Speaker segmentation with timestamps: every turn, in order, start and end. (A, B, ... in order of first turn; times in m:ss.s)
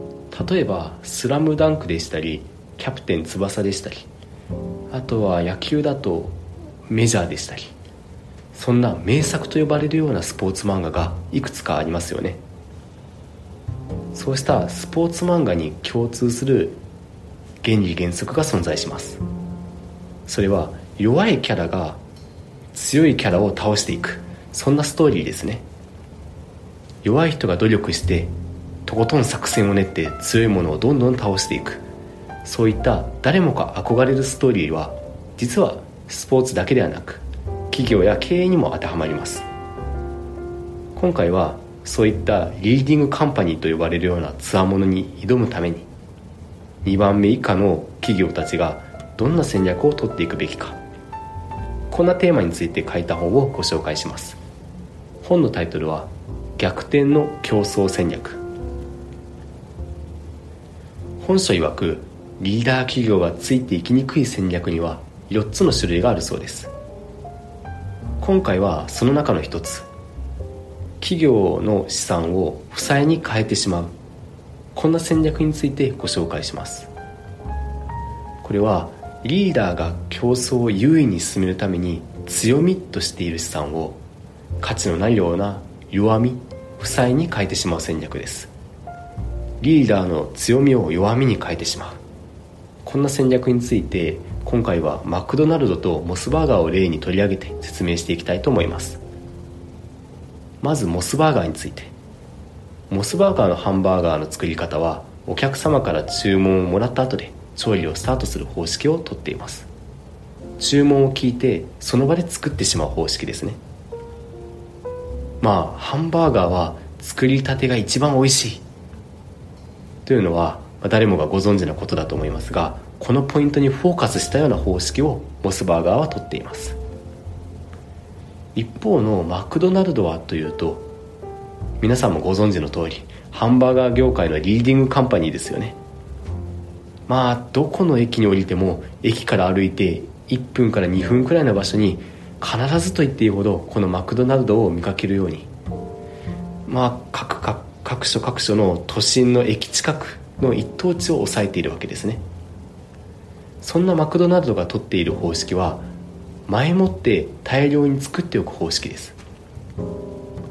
0:00.3-0:04.1 A
0:04.9-0:06.4 A
0:06.9-0:07.8 A
0:08.5-0:12.4 A
0:14.1-0:16.8 A
0:17.6-0:19.2 A
0:20.3-0:22.0 A
0:22.7-0:25.6 A
0:27.0-0:28.3 A
0:28.9-0:31.8 A
0:32.4-0:39.5 A
0:41.0-0:45.9 A
0:46.8-0:50.8 A
0:51.9-0:54.4 A
0:55.2-0:58.4 A
1:01.2-1:06.7 A
1:08.2-1:09.9 A
1:11.0-1:13.9 A
1:14.8-1:16.9 A
1:18.4-1:24.0 A
1:24.6-1:28.5 A
1:29.6-1:32.0 A
1:32.8-1:39.0 A
1:40.6-1:41.9 A
1:42.9-1:49.7 A
1:50.6-1:53.6 A
1:55.4-1:58.6 A
2:00.1-2:06.8 A
2:08.6-2:10.9 A
2:11.8-2:15.8 A
2:17.1-2:25.5 A
2:26.7-2:32.2 A
2:33.6-2:35.9 A
2:36.5-2:39.2 A